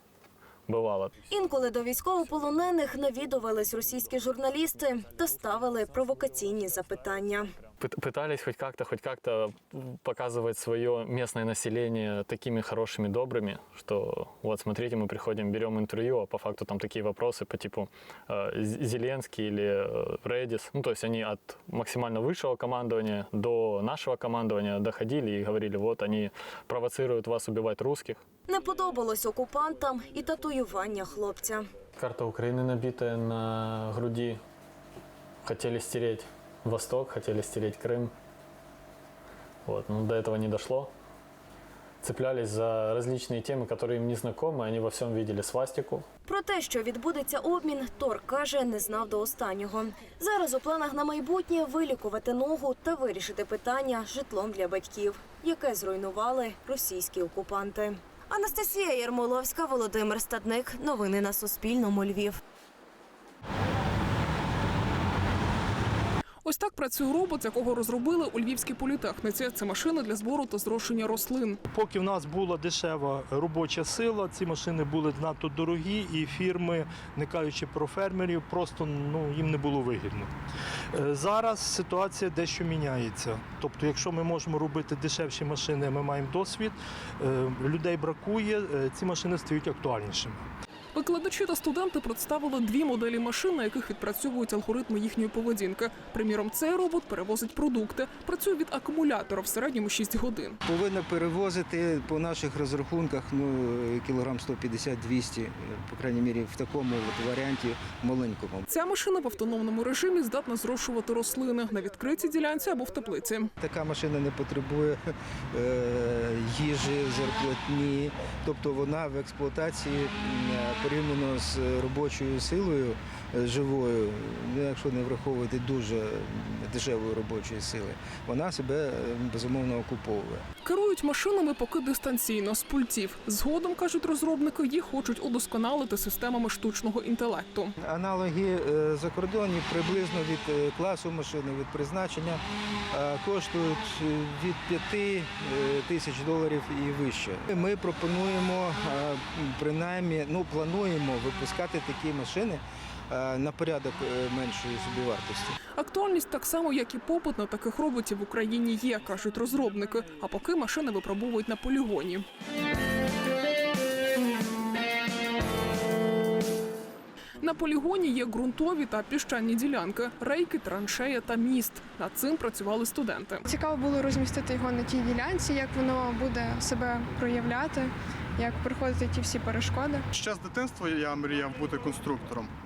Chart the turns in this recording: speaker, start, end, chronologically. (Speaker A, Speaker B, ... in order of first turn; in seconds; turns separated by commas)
Speaker A: 0.7-1.2, Speaker B: 1.3-7.5, Speaker A: 7.8-28.2, Speaker B: 28.5-31.6, Speaker A: 32.0-34.4, Speaker A: 35.5-38.1, Speaker A: 39.7-40.9, Speaker A: 42.0-46.1, Speaker B: 46.3-62.4, Speaker C: 66.5-71.6, Speaker D: 71.7-80.3, Speaker D: 80.9-90.4, Speaker C: 90.9-100.6, Speaker E: 100.7-108.7, Speaker C: 108.7-113.5, Speaker E: 113.6-130.4, Speaker C: 130.6-137.7, Speaker E: 137.8-142.4, Speaker E: 142.9-155.6, Speaker C: 155.8-162.2, Speaker C: 167.4-173.4, Speaker F: 173.5-180.1, Speaker G: 180.1-182.5